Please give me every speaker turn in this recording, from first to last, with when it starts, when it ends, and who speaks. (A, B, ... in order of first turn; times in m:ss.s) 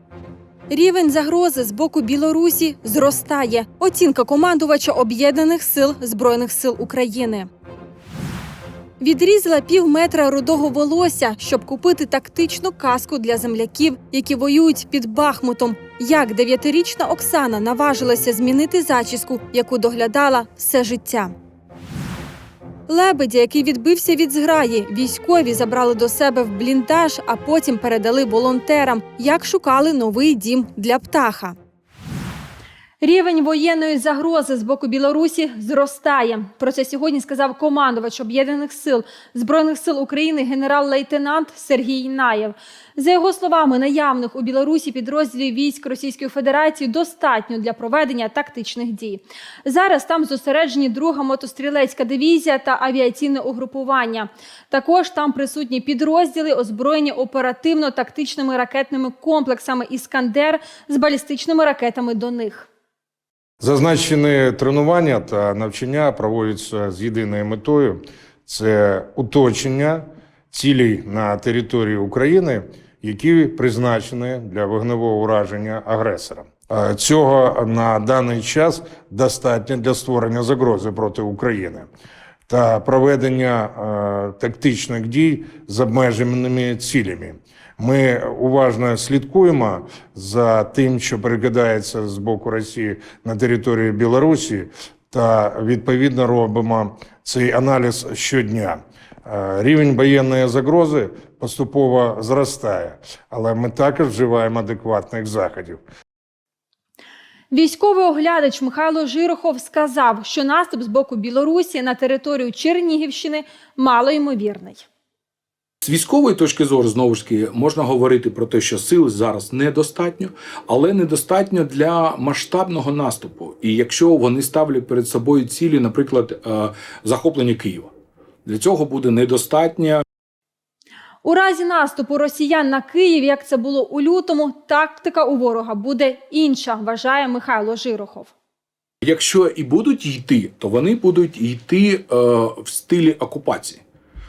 0:00.7-0:07.5 A
0:09.0-0:21.3 A
0:22.9-0:31.6 A
0:33.0-1:02.7 A
1:03.6-1:21.9 B
1:22.5-1:45.8 B
1:47.5-1:54.8 A
1:55.8-2:07.9 C
2:08.4-2:10.0 C
2:11.2-2:18.3 A
2:19.0-2:23.8 C